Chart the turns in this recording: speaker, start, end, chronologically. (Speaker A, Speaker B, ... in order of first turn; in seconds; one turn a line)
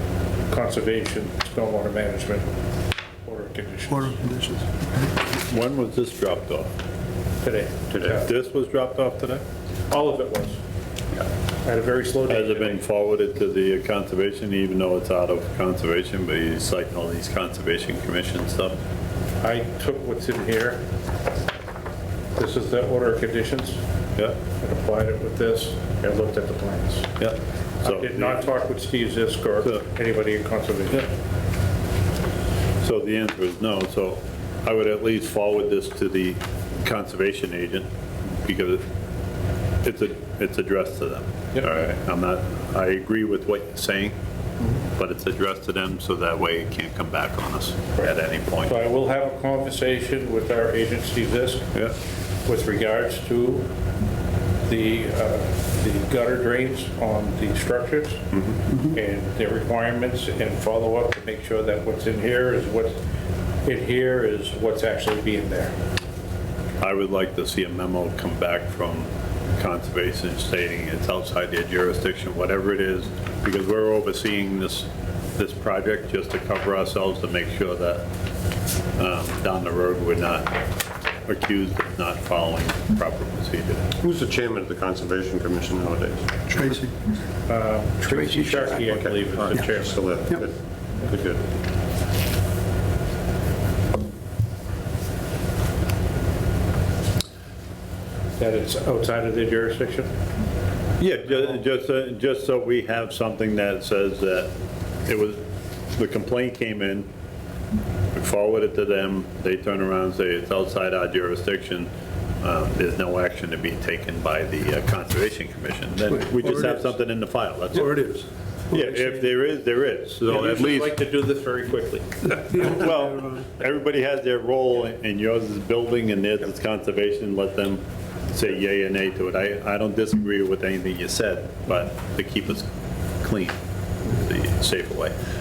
Speaker A: 0.5-2.5
Speaker A: 3.2-4.2
Speaker B: 3.9-5.1
Speaker C: 5.3-6.7
Speaker A: 7.4-8.2
Speaker D: 7.9-8.2
Speaker C: 8.1-9.4
Speaker A: 9.9-10.6
Speaker A: 11.6-12.8
Speaker C: 12.3-18.7
Speaker A: 19.4-20.8
Speaker A: 22.4-23.8
Speaker A: 24.6-27.1
Speaker C: 27.2-28.4
Speaker A: 27.8-31.1
Speaker C: 32.8-38.8
Speaker C: 39.8-44.1
Speaker C: 45.0-48.7
Speaker A: 48.6-51.7
Speaker A: 52.5-53.7
Speaker A: 54.7-58.2
Speaker A: 58.8-63.0
Speaker A: 63.6-65.8
Speaker C: 66.8-78.0
Speaker C: 79.0-80.6
Speaker C: 81.3-83.9
Speaker D: 84.0-86.4
Speaker B: 86.5-87.0
Speaker A: 87.5-90.2
Speaker D: 88.5-91.5
Speaker A: 98.4-100.1
Speaker C: 101.0-104.5
Speaker C: 105.1-105.4
Speaker C: 106.0-107.1
Speaker C: 108.1-111.9
Speaker C: 112.4-118.0
Speaker B: 116.1-116.9
Speaker B: 117.7-119.3
Speaker C: 118.7-121.0
Speaker A: 120.3-122.7
Speaker B: 122.3-123.5
Speaker C: 122.8-132.7
Speaker C: 133.2-135.1